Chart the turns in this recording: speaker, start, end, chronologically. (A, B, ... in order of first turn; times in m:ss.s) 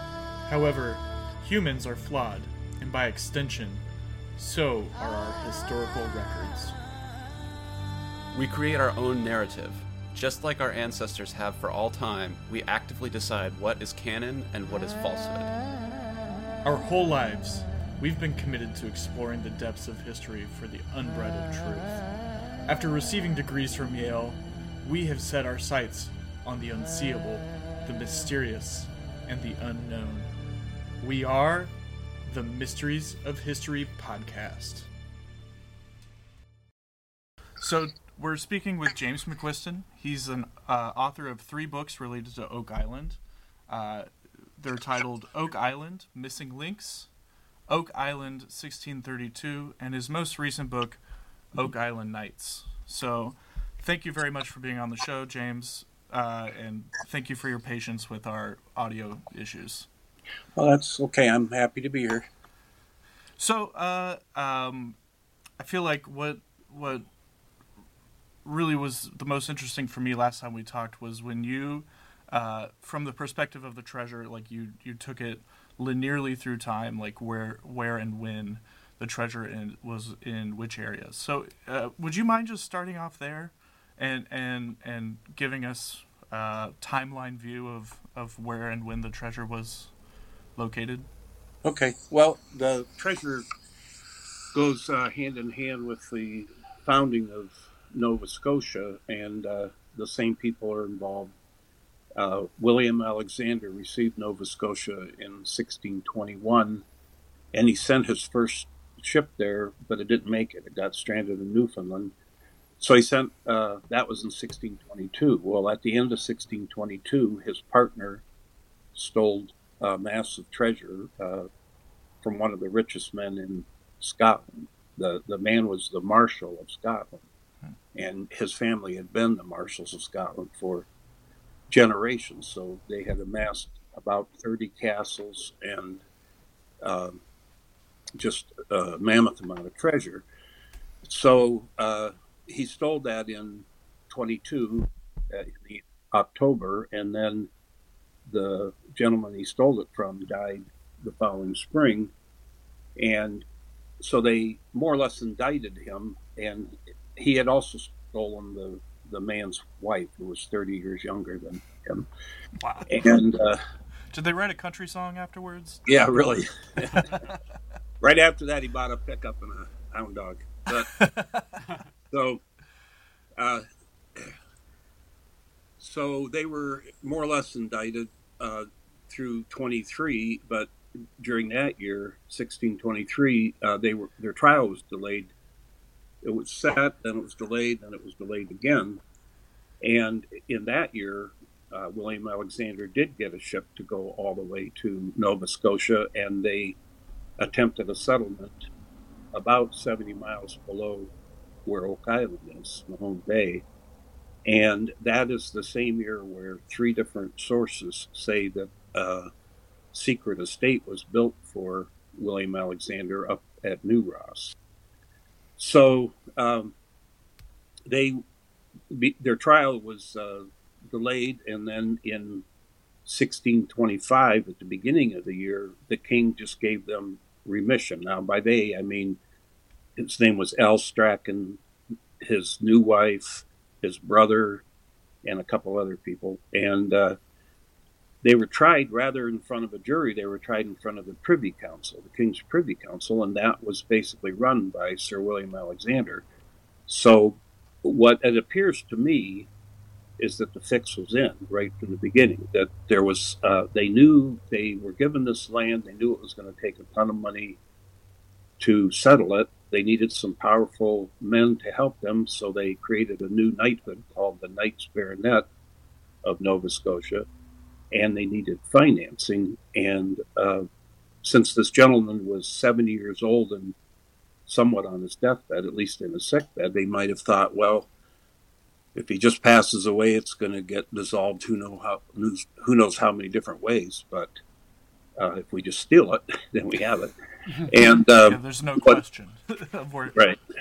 0:00.5-0:03.8 A
0:04.4-0:06.8 A
0:08.3-0:15.5 B
0:16.6-0:22.0 A
0:22.6-0:30.3 A
0:31.0-0:31.7 A
0:32.2-0:34.9 A
0:37.6-0:47.1 A
0:47.7-0:51.0 A
0:51.5-0:59.9 A
1:00.5-1:02.3 C
1:03.4-1:05.0 A
1:05.6-1:07.0 A
1:08.4-1:29.9 A
1:30.6-1:31.1 A
1:31.6-1:33.4 C
1:34.5-1:41.3 C
1:42.2-1:46.8 C
1:47.5-1:52.1 C
1:52.8-1:58.2 C
1:58.9-2:01.5 C
2:02.2-2:07.2 C
2:07.9-2:10.9 C
2:11.7-2:16.0 C
2:16.8-2:17.2 C
2:18.2-2:20.2 C
2:21.0-2:27.5 C
2:28.2-2:32.1 C
2:33.0-2:33.4 C
2:34.0-2:42.1 C
2:42.6-2:42.9 A
2:42.9-2:43.6 C
2:44.1-2:46.0 A
2:45.8-2:47.1 C
2:46.8-2:47.3 A
2:48.0-2:50.9 C
2:50.9-2:51.6 A
2:52.1-2:52.4 C
2:53.4-2:53.6 C
2:55.8-3:05.3 C
3:06.2-3:09.0 C
3:09.8-3:16.8 C
3:17.4-3:18.7 C
3:19.3-3:21.1 C
3:21.6-3:23.6 C
3:24.5-3:29.3 C
3:29.9-3:34.6 C
3:35.6-3:36.7 C
3:37.9-3:38.2 C
3:38.9-3:42.4 C
3:43.0-3:49.2 C
3:50.0-3:51.6 C
3:52.2-3:54.6 C
3:55.2-3:57.2 C
3:58.2-4:06.2 C
4:06.9-4:09.5 C
4:10.2-4:17.6 C
4:18.6-4:25.5 C
4:26.2-4:27.2 C
4:27.9-4:30.7 C
4:31.2-4:33.7 C
4:34.5-4:37.9 C
4:38.9-4:44.3 C
4:45.2-4:47.1 C
4:47.7-4:49.0 C
4:48.0-4:50.4 A